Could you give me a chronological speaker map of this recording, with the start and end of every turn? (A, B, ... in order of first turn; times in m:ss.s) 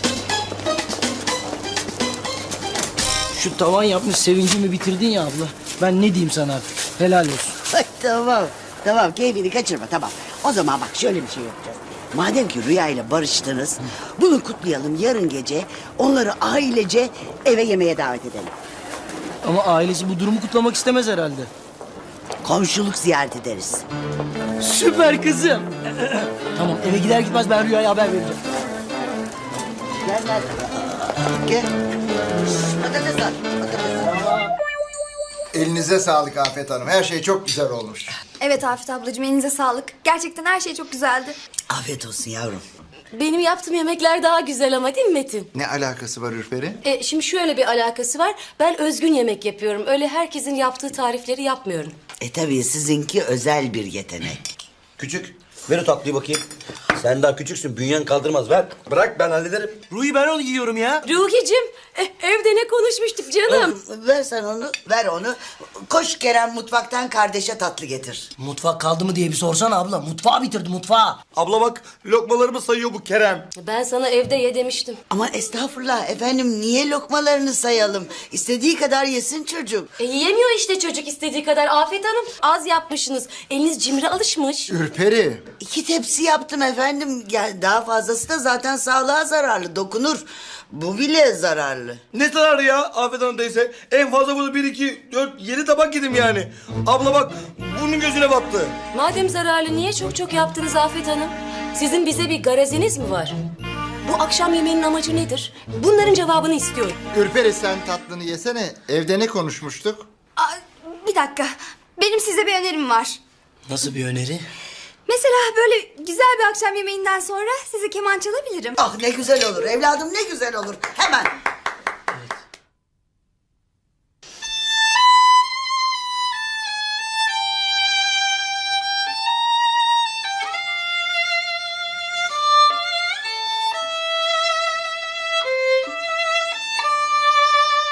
0:03.3-0:07.6 A
0:07.7-0:18.5 B
0:19.4-0:21.5 A
0:22.4-0:23.9 B
0:24.6-0:28.4 A
0:30.0-0:31.7 B
0:32.5-0:34.4 B
0:35.5-0:38.1 C
0:38.4-0:41.4 D
0:41.7-0:42.6 B
0:43.1-0:45.5 E
0:45.6-0:46.8 C
0:46.8-0:52.0 E
0:52.2-0:54.4 B
0:55.0-0:56.4 F
0:57.0-0:59.8 F
0:59.9-1:01.1 A
1:01.1-1:03.7 E
1:03.5-1:08.3 B
1:08.4-1:11.2 A
1:11.3-1:13.5 F
1:13.6-1:15.0 E
1:15.1-1:19.9 B
1:20.0-1:24.7 E
1:24.7-1:25.4 C
1:25.6-1:32.0 B
1:32.1-1:38.7 F
1:38.9-1:43.4 E
1:44.0-1:47.0 E
1:47.1-1:50.1 C
1:50.4-1:53.2 D
1:53.7-1:54.5 A
1:55.1-1:58.8 D
1:58.8-2:01.3 B